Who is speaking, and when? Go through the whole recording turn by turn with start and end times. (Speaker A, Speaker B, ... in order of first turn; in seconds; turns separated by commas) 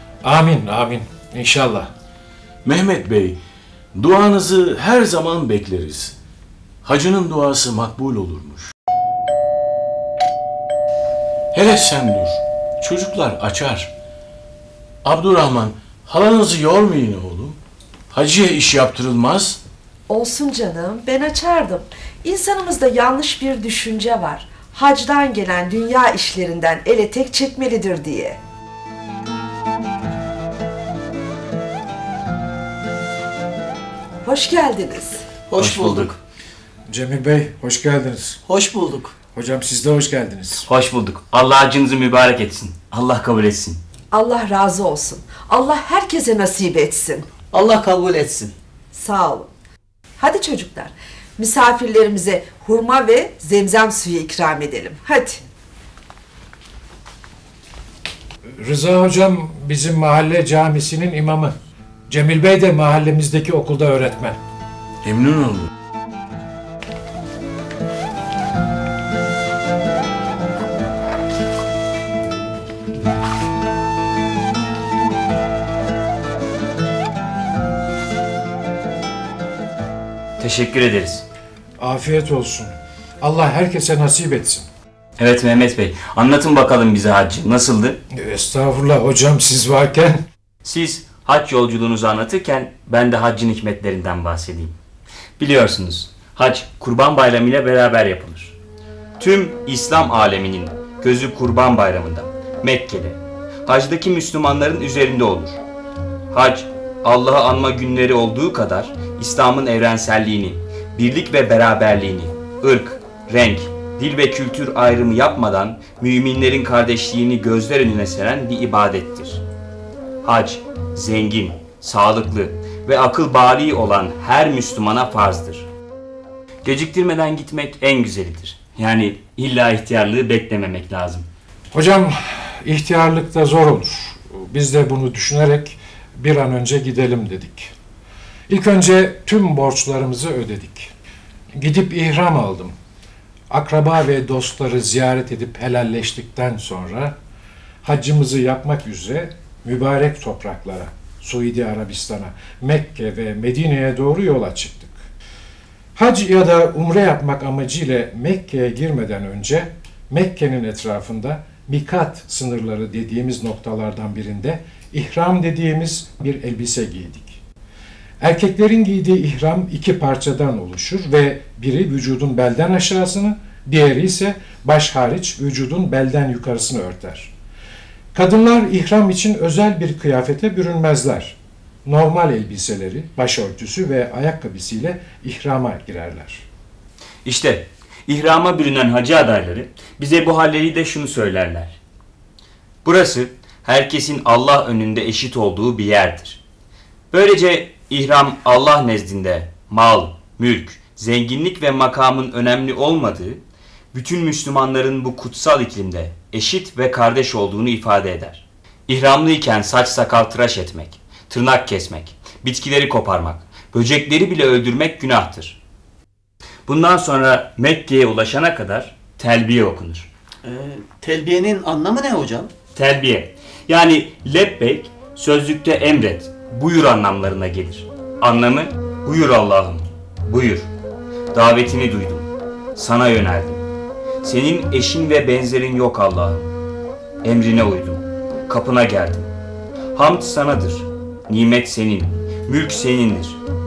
Speaker A: 0.2-1.9, Speaker B: 2.6-3.4, Speaker B: 4.0-6.2, Speaker B: 6.8-8.7, Speaker B: 11.5-13.9, Speaker B: 15.0-17.6, Speaker B: 18.1-19.6, Speaker C: 20.1-28.4, Speaker C: 34.2-35.2, Speaker D: 35.5-36.2, Speaker E: 35.6-36.1, Speaker A: 36.9-38.4, Speaker D: 38.5-39.1, Speaker A: 39.3-40.7, Speaker E: 40.7-43.8, Speaker C: 44.1-47.3, Speaker D: 47.5-48.6, Speaker C: 48.9-49.5, Speaker C: 50.2-55.4, Speaker A: 58.6-61.5, Speaker A: 62.1-64.4, Speaker B: 65.0-65.7, Speaker E: 80.4-81.2, Speaker A: 81.8-84.7, Speaker E: 85.2-88.0, Speaker A: 88.1-90.2, Speaker E: 90.6-94.8, Speaker E: 95.4-98.5, Speaker E: 99.2-105.6, Speaker E: 106.3-119.4, Speaker E: 120.2-125.7, Speaker E: 126.6-131.3, Speaker A: 131.7-137.7, Speaker A: 138.5-140.9, Speaker A: 141.6-142.8, Speaker A: 143.5-147.2, Speaker A: 147.8-155.0, Speaker A: 156.0-167.4, Speaker A: 168.2-177.3, Speaker A: 178.1-186.4, Speaker E: 187.2-191.8, Speaker E: 192.8-196.4, Speaker E: 197.1-203.4, Speaker E: 203.9-215.6, Speaker E: 216.7-220.1, Speaker D: 220.4-222.5, Speaker E: 222.8-230.7, Speaker E: 231.3-233.6, Speaker E: 234.2-236.5, Speaker E: 237.2-239.3, Speaker E: 239.9-243.4